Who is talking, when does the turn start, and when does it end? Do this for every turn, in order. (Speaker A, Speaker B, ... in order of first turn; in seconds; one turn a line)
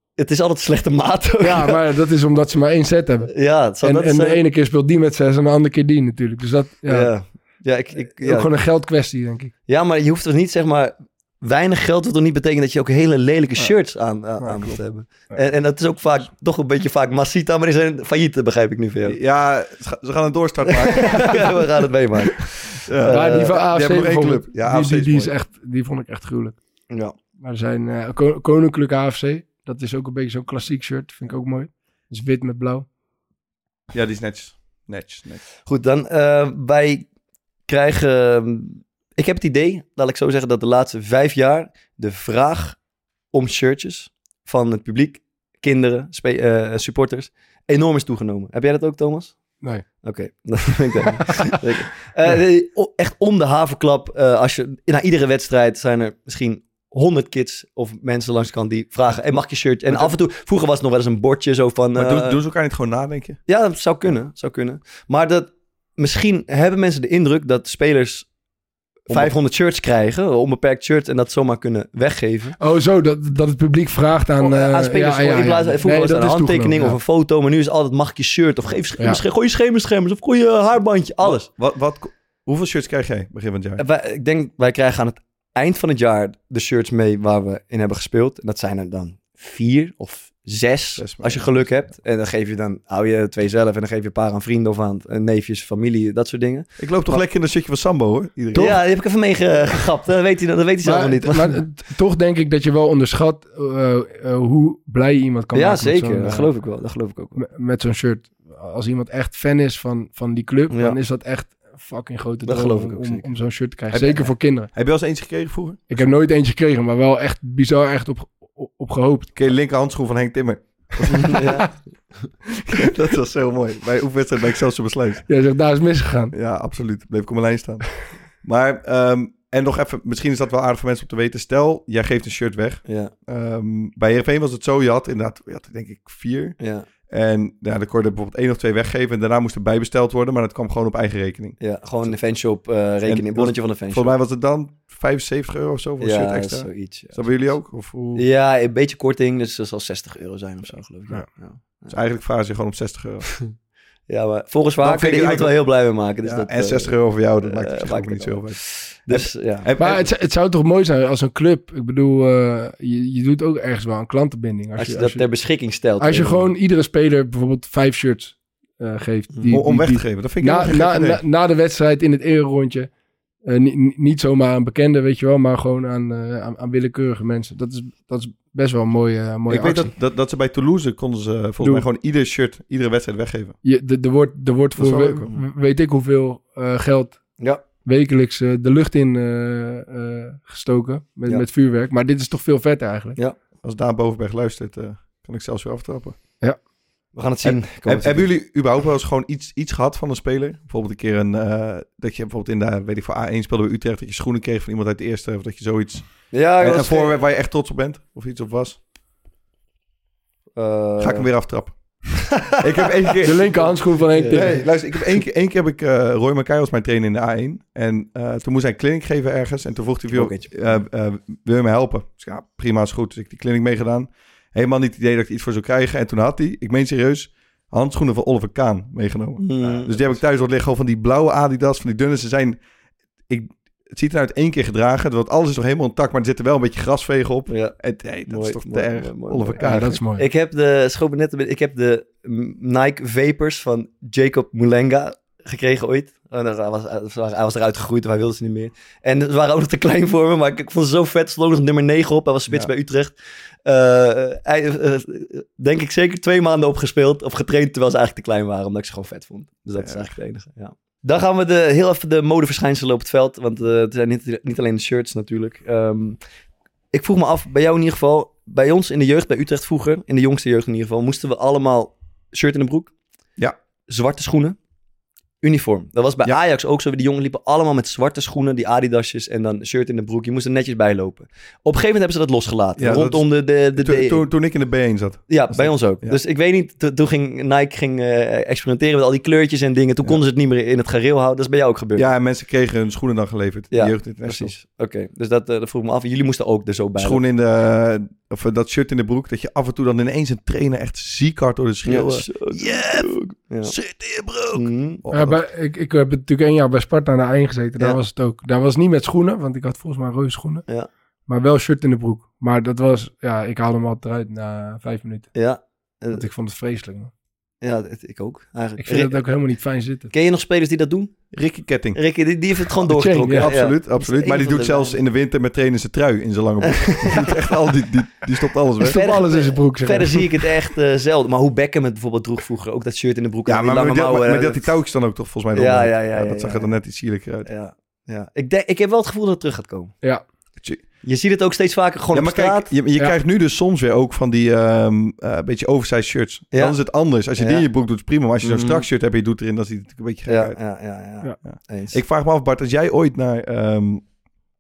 Speaker A: 0.2-1.8
Speaker B: 1.4-3.3
Speaker A: 3.3-4.4
Speaker B: 3.8-7.1
Speaker A: 6.9-8.5
Speaker B: 8.2-9.5
Speaker A: 9.7-19.2
Speaker C: 19.0-21.6
Speaker A: 20.7-23.6
Speaker C: 22.9-25.3
Speaker B: 23.1-26.6
Speaker B: 27.4-32.9
Speaker C: 33.9-35.4
Speaker A: 35.7-37.0
Speaker A: 37.7-42.8
Speaker A: 43.3-49.4
Speaker A: 50.0-62.4
Speaker C: 62.0-63.4
Speaker A: 63.5-68.3
Speaker C: 69.1-69.3
Speaker A: 69.1-72.6
Speaker B: 72.6-77.0
Speaker A: 74.4-81.5
Speaker C: 81.2-83.8
Speaker A: 83.8-97.2
Speaker C: 91.0-91.7
Speaker C: 96.8-98.8
Speaker A: 98.5-101.6
Speaker B: 100.8-106.5
Speaker A: 105.5-107.4
Speaker B: 107.4-114.7
Speaker A: 110.7-111.0
Speaker A: 112.5-113.3
Speaker C: 113.9-116.0
Speaker B: 115.9-119.3
Speaker C: 119.3-121.4
Speaker A: 121.1-121.7
Speaker B: 121.2-121.6
Speaker C: 122.6-125.2
Speaker B: 125.3-126.3
Speaker C: 126.3-136.6
Speaker A: 132.9-133.1
Speaker A: 136.6-136.9
Speaker C: 137.1-142.1
Speaker A: 141.6-144.1
Speaker C: 143.1-148.2
Speaker A: 146.0-147.5
Speaker A: 148.2-152.0
Speaker C: 151.9-153.3
Speaker A: 154.1-159.7
Speaker C: 154.8-155.6
Speaker C: 156.2-160.1
Speaker B: 159.8-165.2
Speaker A: 164.8-166.4
Speaker B: 166.0-172.9
Speaker C: 169.5-171.2
Speaker B: 173.4-179.9
Speaker C: 179.5-183.6
Speaker B: 181.6-181.9
Speaker B: 183.6-187.2
Speaker C: 184.8-185.3
Speaker B: 187.8-193.2
Speaker C: 193.6-196.2
Speaker A: 197.1-198.3
Speaker C: 197.4-206.1
Speaker A: 206.3-207.2
Speaker C: 206.6-208.8
Speaker A: 210.6-211.3
Speaker C: 211.0-211.8
Speaker A: 212.3-213.6
Speaker C: 212.6-213.7
Speaker B: 213.2-214.6
Speaker A: 214.1-214.7
Speaker C: 214.3-232.6
Speaker A: 220.1-220.6
Speaker A: 229.4-230.2
Speaker C: 233.3-240.0
Speaker A: 237.5-253.2
Speaker B: 239.6-240.2
Speaker A: 253.7-266.2
Speaker C: 259.8-260.1
Speaker A: 266.9-272.9
Speaker A: 273.9-274.6
Speaker A: 275.4-284.2
Speaker C: 282.8-286.2
Speaker A: 285.3-292.1
Speaker C: 292.0-294.5
Speaker A: 293.7-297.2
Speaker C: 297.0-305.4
Speaker A: 301.9-303.7
Speaker A: 304.5-305.0
Speaker B: 305.1-310.6
Speaker B: 311.3-315.3
Speaker A: 315.4-316.2
Speaker B: 316.1-317.1
Speaker A: 317.6-319.2
Speaker B: 318.8-320.1
Speaker A: 320.1-321.1
Speaker C: 321.3-322.0
Speaker A: 321.9-325.0
Speaker B: 322.9-323.5
Speaker C: 323.4-329.0
Speaker A: 326.6-327.4
Speaker A: 328.8-334.7
Speaker B: 328.8-330.5
Speaker C: 333.5-337.5
Speaker A: 335.5-336.7
Speaker A: 337.5-339.9
Speaker A: 341.0-342.7
Speaker C: 342.1-350.6
Speaker A: 346.5-346.8
Speaker A: 347.3-347.6
Speaker A: 348.4-348.9
Speaker A: 350.3-352.0
Speaker C: 351.5-354.0